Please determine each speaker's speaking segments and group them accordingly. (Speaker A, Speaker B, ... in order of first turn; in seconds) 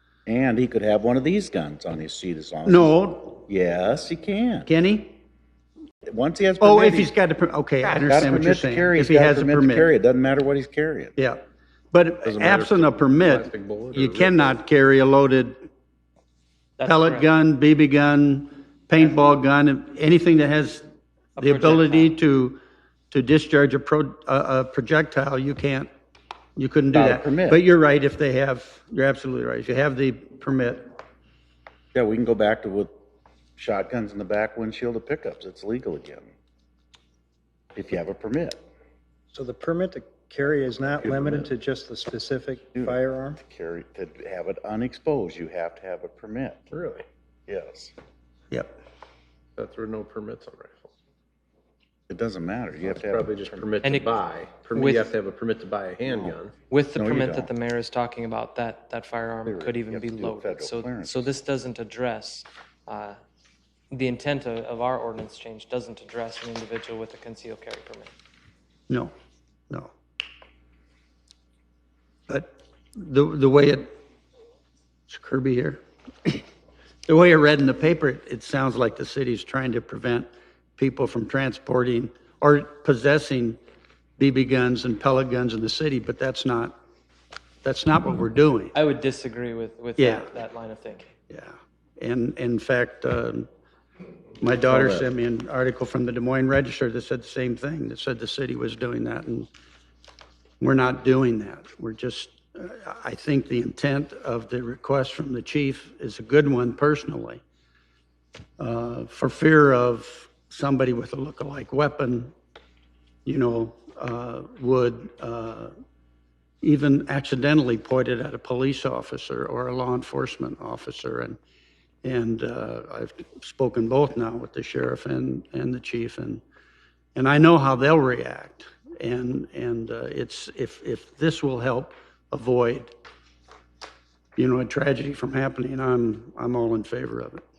Speaker A: 0.2-3.0, 3.5-4.7, 6.1-7.1, 8.1-11.1, 26.9-27.6, 31.9-32.9, 33.6-36.3, 37.7-38.6, 42.8-46.6, 47.5-47.9, 52.1-53.7, 56.1-56.4, 57.0-57.5, 59.5-61.3
Speaker B: 2.6-3.5, 4.6-5.2, 6.6-9.9, 11.2-15.7, 16.8-20.8, 21.4-25.9, 26.6-30.9, 48.5-48.8, 68.9-69.1, 72.3-74.0, 75.1-76.4, 77.0-83.6, 84.2-86.8, 87.6-88.7, 90.0-90.3, 91.3-93.5, 94.4-99.5, 100.6-107.4, 108.6-112.3, 113.2-115.7, 116.6-121.4, 122.0-126.4, 127.1-132.9, 134.3-137.4
Speaker C: 12.2-14.5, 41.0-41.4, 46.7-47.0, 49.6-50.9, 52.8-56.5
Speaker D: 16.8-17.3, 21.4-22.1, 53.8-54.1, 54.7-55.1, 56.7-63.2, 63.9-68.1, 88.7-91.1
Speaker E: 39.3-43.4